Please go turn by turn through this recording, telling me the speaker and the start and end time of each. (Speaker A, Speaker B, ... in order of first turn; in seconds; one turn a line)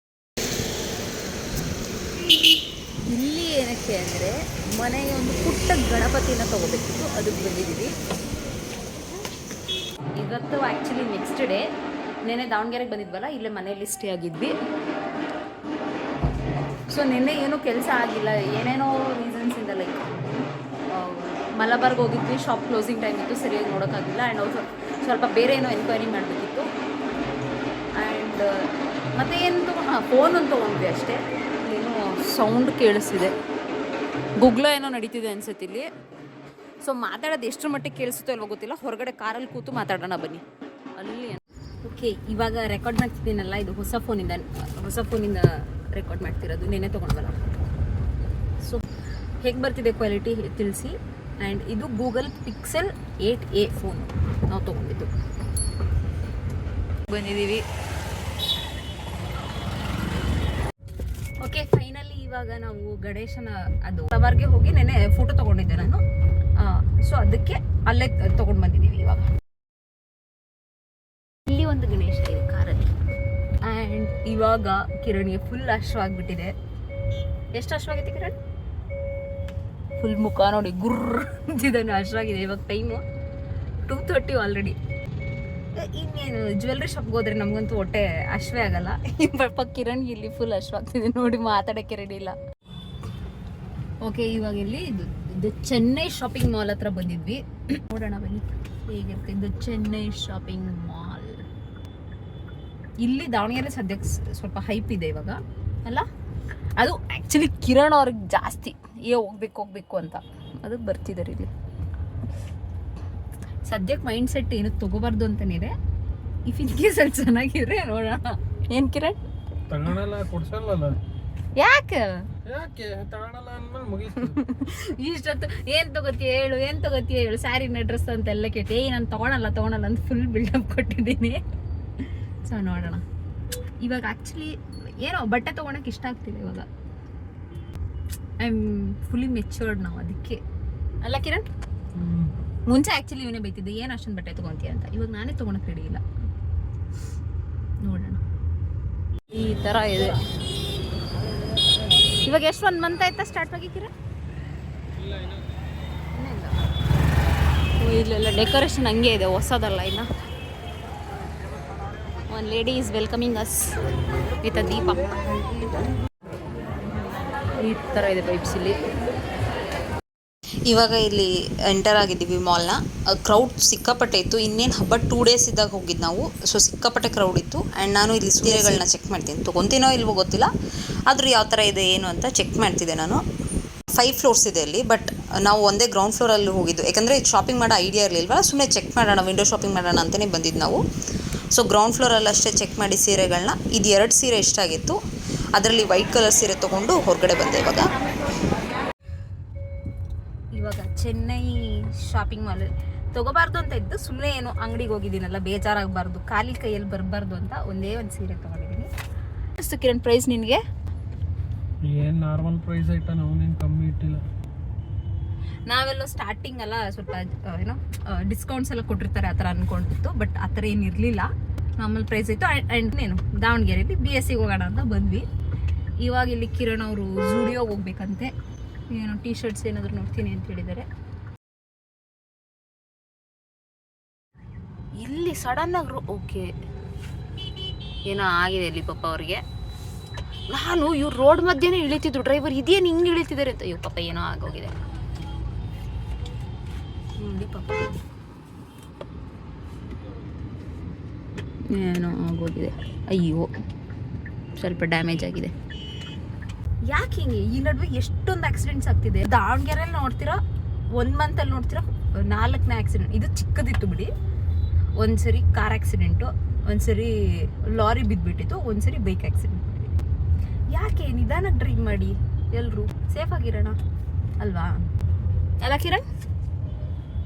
Speaker A: 3.0-7.9
Speaker A: 10.2-11.7
Speaker A: 12.2-14.6
Speaker A: 16.9-20.0
Speaker A: 20.9-26.7
Speaker A: 28.0-33.4
Speaker A: 34.4-35.9
Speaker A: 36.8-40.4
Speaker A: 41.0-47.4
Speaker A: 49.4-55.1
Speaker A: 57.1-57.7
Speaker A: 61.4-66.0
Speaker A: 66.6-69.3
Speaker A: 71.5-72.9
Speaker A: 73.6-76.5
Speaker A: 77.5-78.4
Speaker A: 80.0-83.0
Speaker A: 83.9-84.8
Speaker A: 85.8-92.4
Speaker A: 94.0-101.5
Speaker A: 103.0-106.1
Speaker A: 106.8-111.5
Speaker A: 113.6-115.7
Speaker A: 116.5-119.2
Speaker B: 119.7-121.0
Speaker A: 121.6-122.2
Speaker B: 122.5-124.4
Speaker A: 124.4-131.4
Speaker A: 132.4-133.0
Speaker A: 133.8-136.7
Speaker A: 138.4-140.4
Speaker A: 141.0-141.5
Speaker B: 141.9-142.3
Speaker A: 142.7-146.0
Speaker A: 147.8-148.2
Speaker A: 149.3-150.2
Speaker A: 152.2-153.9
Speaker B: 154.9-155.5
Speaker A: 156.2-156.6
Speaker A: 157.8-160.1
Speaker A: 162.3-163.8
Speaker A: 164.4-165.9
Speaker A: 167.5-168.9
Speaker C: 170.7-180.5
Speaker C: 181.1-183.2
Speaker C: 184.0-190.8
Speaker C: 191.5-195.0
Speaker C: 195.6-197.9
Speaker A: 200.5-208.9
Speaker A: 209.6-210.6
Speaker B: 211.8-214.2
Speaker A: 215.7-225.3
Speaker A: 226.0-228.3
Speaker A: 228.9-230.9
Speaker A: 235.0-236.5
Speaker A: 238.1-239.4
Speaker A: 240.5-244.8
Speaker A: 247.2-248.0
Speaker A: 251.7-253.5
Speaker A: 254.6-255.5
Speaker A: 256.9-260.4
Speaker A: 261.0-264.1
Speaker A: 265.0-270.0
Speaker A: 270.7-273.8
Speaker A: 274.4-274.7
Speaker A: 275.6-276.1